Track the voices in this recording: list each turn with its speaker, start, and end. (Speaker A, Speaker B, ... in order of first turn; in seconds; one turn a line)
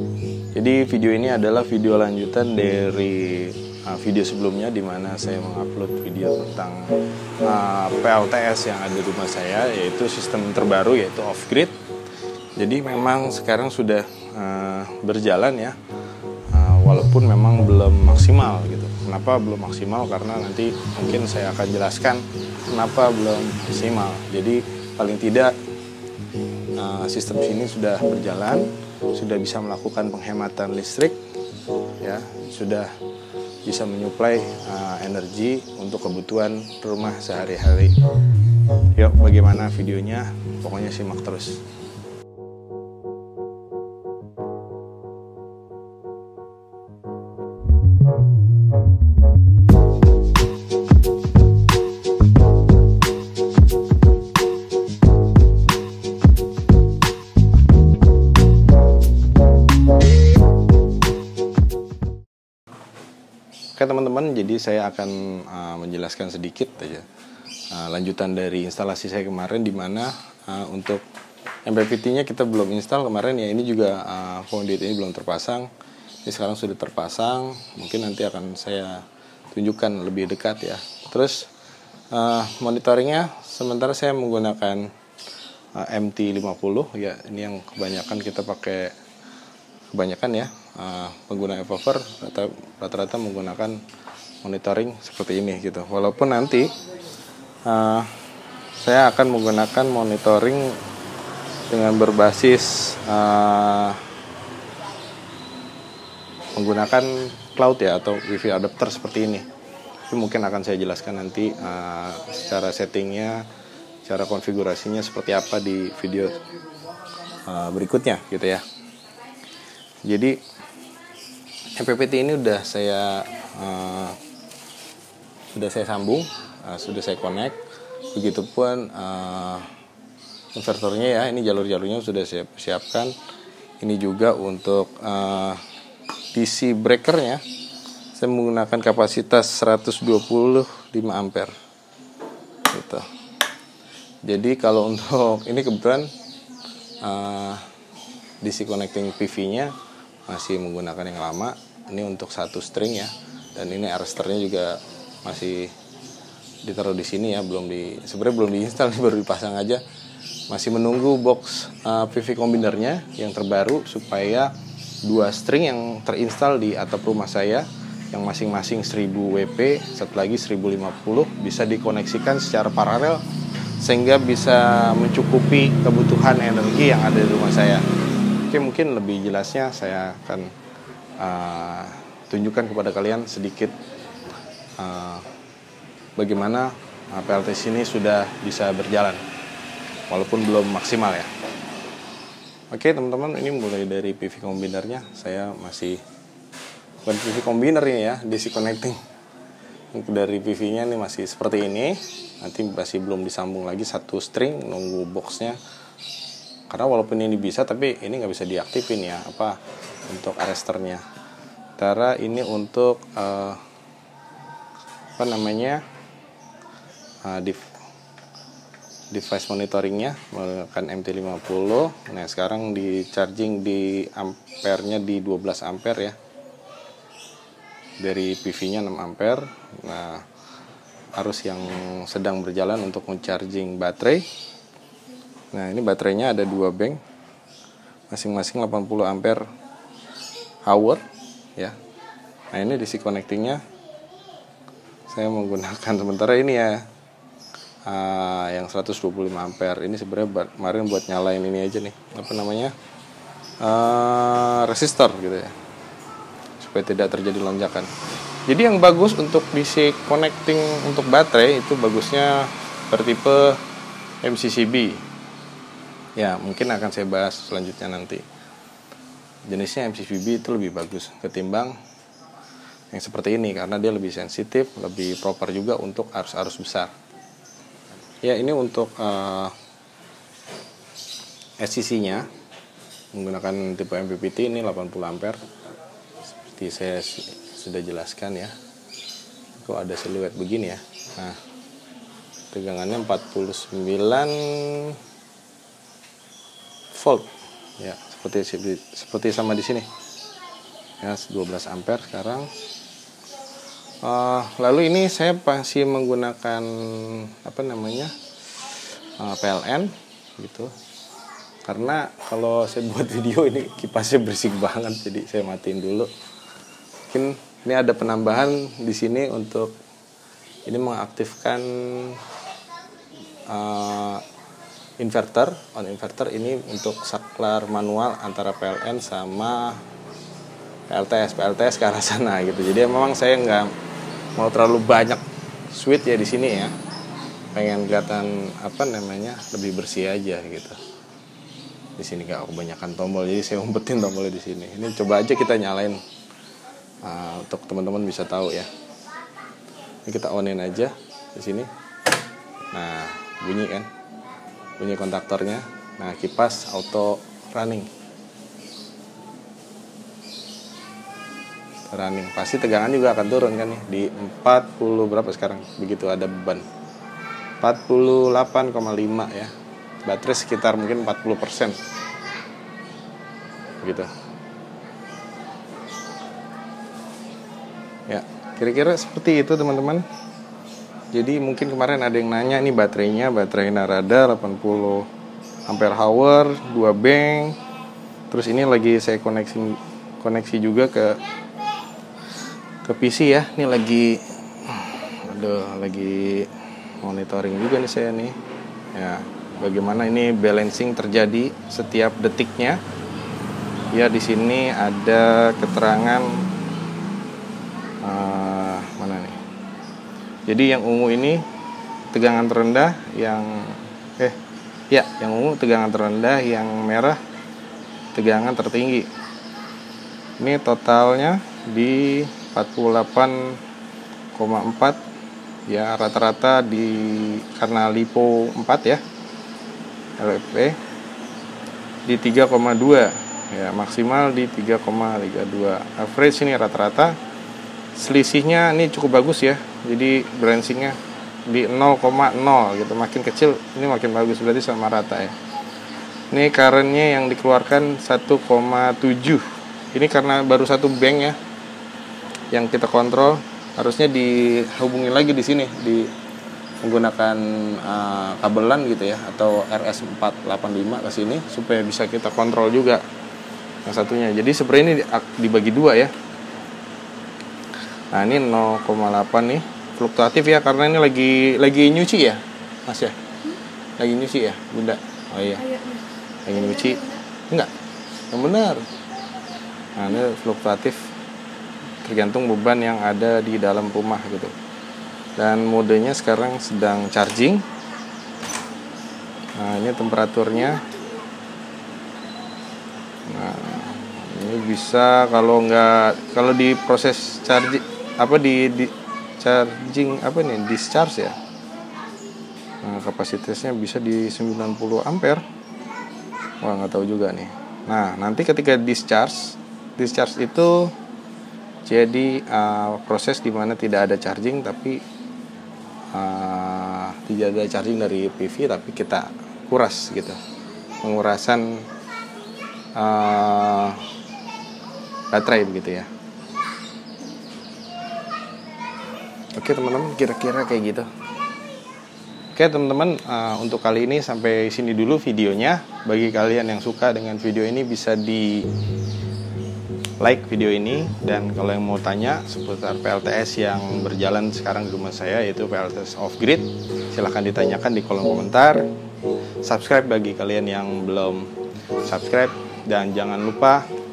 Speaker A: 0.5-11.8
Speaker A: 12.6-15.8
Speaker A: 16.5-25.6
Speaker A: 26.8-31.2
Speaker A: 32.0-32.9
Speaker A: 33.6-38.0
Speaker A: 38.9-41.6
Speaker A: 63.8-67.1
Speaker A: 67.7-71.0
Speaker A: 71.7-75.7
Speaker A: 76.2-81.5
Speaker A: 82.1-84.9
Speaker A: 85.8-89.0
Speaker A: 89.9-93.8
Speaker A: 94.4-96.7
Speaker A: 97.7-98.1
Speaker A: 98.8-100.8
Speaker A: 101.7-104.0
Speaker A: 106.5-109.5
Speaker A: 110.1-113.5
Speaker A: 114.0-116.4
Speaker A: 117.4-118.7
Speaker A: 120.0-120.4
Speaker A: 121.7-124.2
Speaker A: 125.5-127.6
Speaker A: 128.1-129.7
Speaker A: 130.6-133.2
Speaker A: 133.8-135.6
Speaker A: 136.3-137.4
Speaker A: 138.2-141.5
Speaker A: 142.7-143.1
Speaker A: 144.2-146.1
Speaker A: 147.0-147.7
Speaker A: 148.4-149.8
Speaker A: 150.3-155.8
Speaker A: 156.6-159.8
Speaker A: 160.5-173.2
Speaker A: 173.8-177.8
Speaker A: 178.5-180.5
Speaker A: 181.2-183.8
Speaker A: 184.8-185.3
Speaker A: 186.2-189.2
Speaker A: 190.1-191.3
Speaker A: 192.7-196.0
Speaker A: 197.1-199.0
Speaker A: 199.9-205.6
Speaker A: 206.7-209.6
Speaker A: 210.1-211.0
Speaker A: 211.8-213.6
Speaker A: 215.2-215.8
Speaker A: 217.2-217.6
Speaker A: 219.1-226.2
Speaker A: 228.0-230.2
Speaker A: 231.2-234.3
Speaker A: 235.5-237.0
Speaker A: 238.1-239.5
Speaker A: 240.7-241.0
Speaker A: 242.5-243.6
Speaker A: 245.1-246.9
Speaker A: 247.8-252.8
Speaker A: 253.6-255.5
Speaker A: 256.6-257.9
Speaker A: 258.5-263.6
Speaker A: 264.2-265.0
Speaker A: 266.2-268.2
Speaker A: 269.5-271.8
Speaker A: 272.9-276.9
Speaker A: 278.2-279.6
Speaker A: 281.6-282.3
Speaker A: 283.1-285.4
Speaker A: 286.4-288.6
Speaker A: 289.6-291.4
Speaker A: 292.5-295.0
Speaker A: 296.9-299.9
Speaker A: 301.0-302.5
Speaker A: 304.0-308.1
Speaker A: 309.2-310.7
Speaker A: 311.7-316.1
Speaker A: 317.1-319.8
Speaker A: 320.7-322.2
Speaker A: 323.5-324.2
Speaker A: 325.0-329.8
Speaker A: 330.9-333.7
Speaker A: 334.4-336.7
Speaker A: 337.5-340.8
Speaker A: 342.0-346.0
Speaker A: 347.0-348.7
Speaker A: 350.1-351.7
Speaker A: 352.7-353.9
Speaker A: 354.8-357.9
Speaker A: 361.9-366.6
Speaker A: 367.6-369.5
Speaker A: 370.0-371.8
Speaker A: 373.8-374.1
Speaker A: 378.1-380.1
Speaker A: 381.1-385.1
Speaker A: 385.7-387.6
Speaker A: 388.3-391.2
Speaker A: 392.8-398.4
Speaker A: 398.9-402.8
Speaker A: 403.9-406.5
Speaker A: 408.0-409.4
Speaker A: 410.5-411.4
Speaker A: 412.1-414.4
Speaker A: 414.9-417.2
Speaker A: 418.1-419.1
Speaker A: 420.4-423.6
Speaker A: 424.4-425.0
Speaker A: 425.7-429.0
Speaker A: 430.2-430.8
Speaker A: 432.1-437.2
Speaker A: 438.0-445.4
Speaker A: 446.3-451.4
Speaker A: 452.5-456.1
Speaker A: 456.8-463.0
Speaker A: 463.9-466.1
Speaker A: 468.1-473.2
Speaker A: 474.0-475.8
Speaker A: 476.4-477.7
Speaker A: 478.3-478.9
Speaker A: 480.0-481.1
Speaker A: 482.0-484.5
Speaker A: 485.4-487.6
Speaker A: 489.6-490.9
Speaker A: 493.3-501.4
Speaker A: 502.8-505.4
Speaker A: 506.6-510.9
Speaker A: 511.9-515.0
Speaker A: 516.1-520.4
Speaker A: 521.0-521.9
Speaker A: 523.0-524.0
Speaker A: 525.3-526.1
Speaker A: 529.5-531.1
Speaker A: 532.5-538.7
Speaker A: 540.2-548.9
Speaker A: 549.6-551.5
Speaker A: 552.0-553.9